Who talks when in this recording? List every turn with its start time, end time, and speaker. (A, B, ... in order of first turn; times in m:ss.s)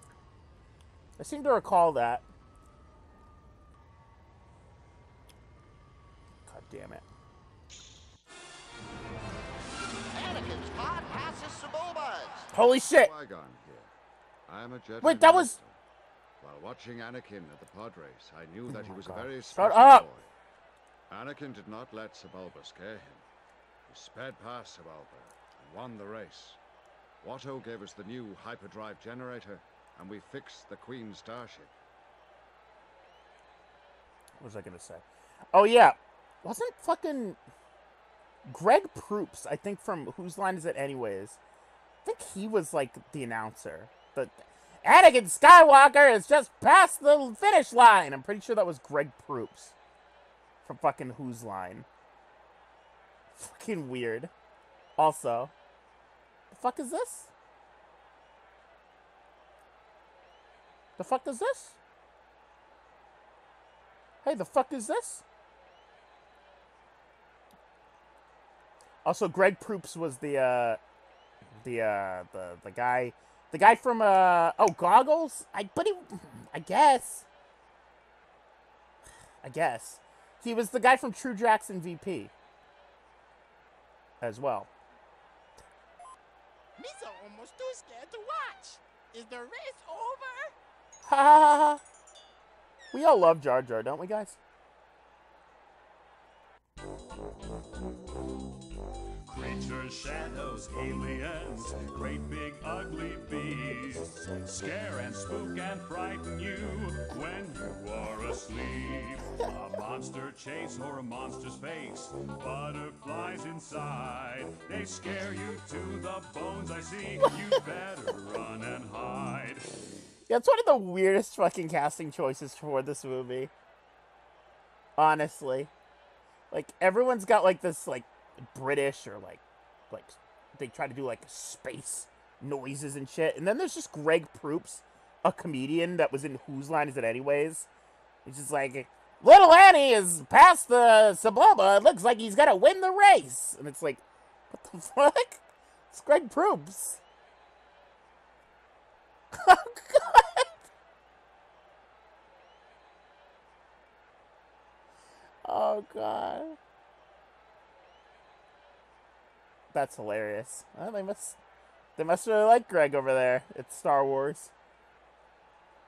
0:01.2-0:02.3 A
0:06.4-0:07.0 A
0:10.1-0:12.5 B
0:12.5-0:13.1 A
0:12.9-0:13.9 C
0:14.5-0:15.8 C
0:15.0-0:15.6 A
0:16.4-0:20.3 C
0:18.7-0:20.1 A
0:21.1-0:23.2 C
0:23.9-0:26.6 C
0:27.2-0:31.7 C
0:34.4-0:37.4 A
0:38.5-0:41.4 A
0:42.0-0:49.8 A
0:50.6-0:51.9 A
0:53.4-0:54.3 A
0:55.0-0:55.5 A
0:56.5-0:57.3 A
1:01.0-1:01.8 A
1:04.2-1:05.2 A
1:09.0-1:10.8 A
1:11.6-1:17.3 A
1:19.4-1:22.3 A
1:24.2-1:24.7 A
1:26.8-1:30.6 D
1:31.0-1:31.8 A
1:32.9-1:34.4 A
1:39.3-1:59.7 E
2:00.3-2:03.5 A
2:05.0-2:05.7 A
2:06.5-2:17.7 A
2:18.2-2:27.0 A
2:29.3-2:30.5 A
2:35.4-2:36.6 A
2:39.7-2:41.4 A
2:42.0-2:44.5 A